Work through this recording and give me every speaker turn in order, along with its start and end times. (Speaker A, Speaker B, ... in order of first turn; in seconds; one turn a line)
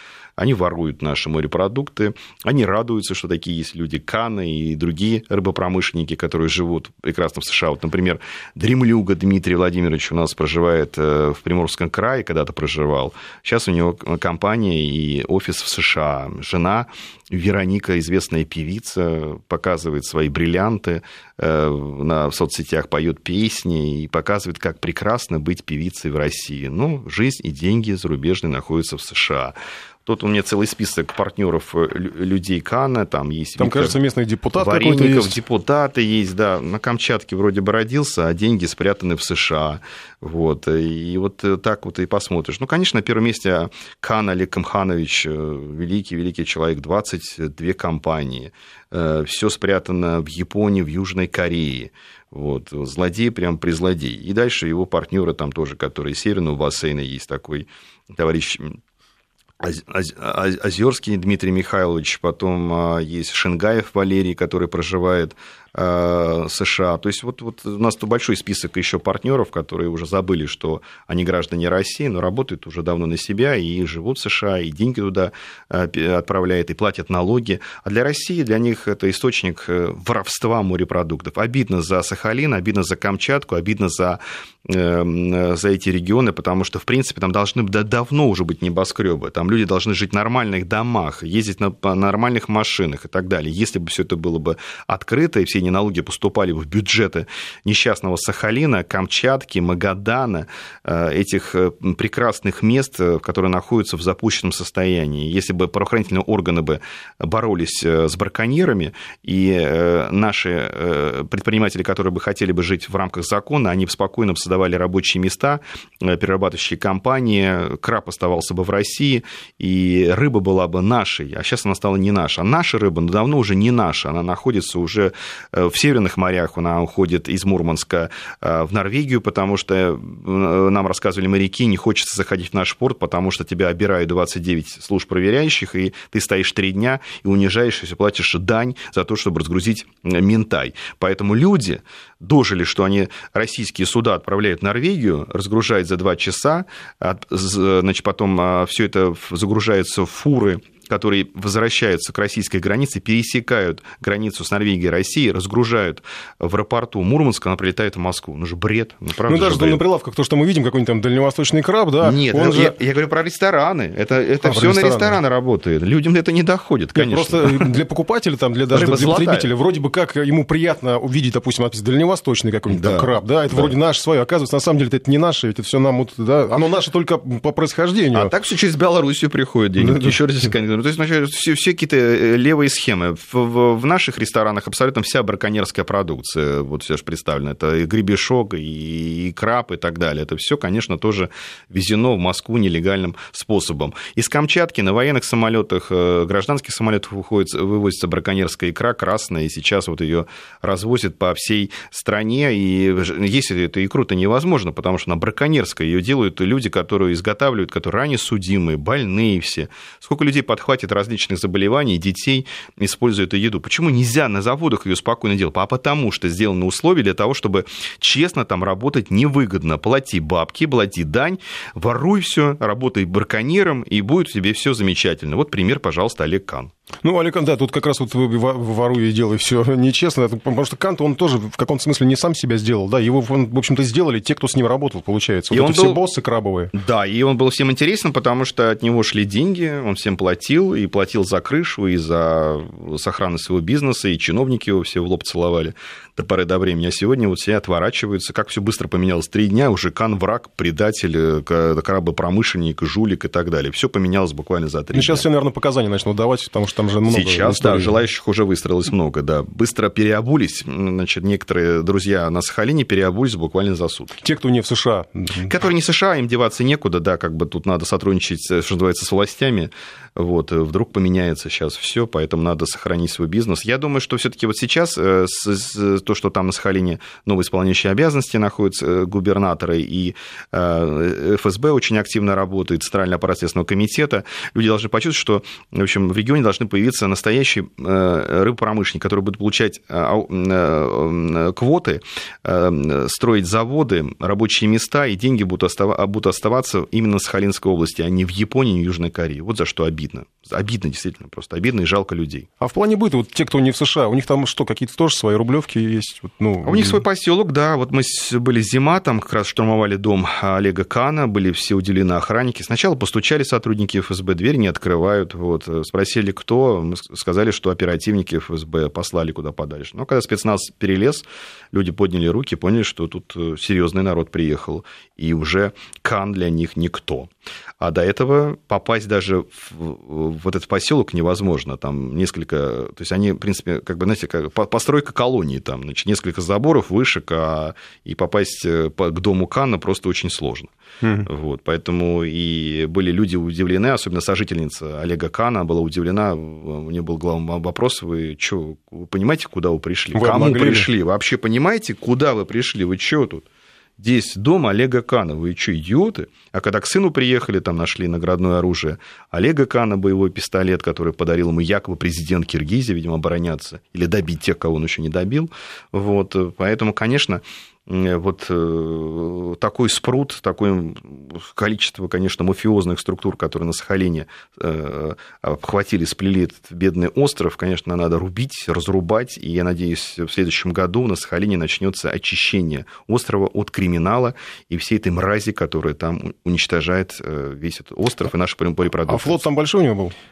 Speaker A: 0.4-34.0
Speaker B: 33.6-35.4
Speaker A: 34.6-58.8
Speaker A: 59.6-159.8
Speaker B: 159.3-162.7
Speaker A: 162.0-167.7
Speaker B: 164.4-165.2
Speaker B: 167.0-178.3
Speaker A: 168.7-169.5
Speaker A: 172.7-173.7
Speaker A: 178.1-226.7
Speaker B: 179.8-180.5
Speaker B: 227.0-236.7
Speaker A: 235.5-236.0
Speaker A: 236.7-255.2
Speaker B: 254.9-258.0
Speaker A: 257.1-264.2
Speaker B: 264.2-265.5
Speaker A: 265.4-302.5
Speaker B: 302.6-307.0
Speaker A: 306.6-340.7
Speaker B: 341.0-341.3
Speaker A: 341.3-353.4
Speaker B: 350.1-350.9
Speaker A: 354.0-389.4
Speaker B: 389.1-390.1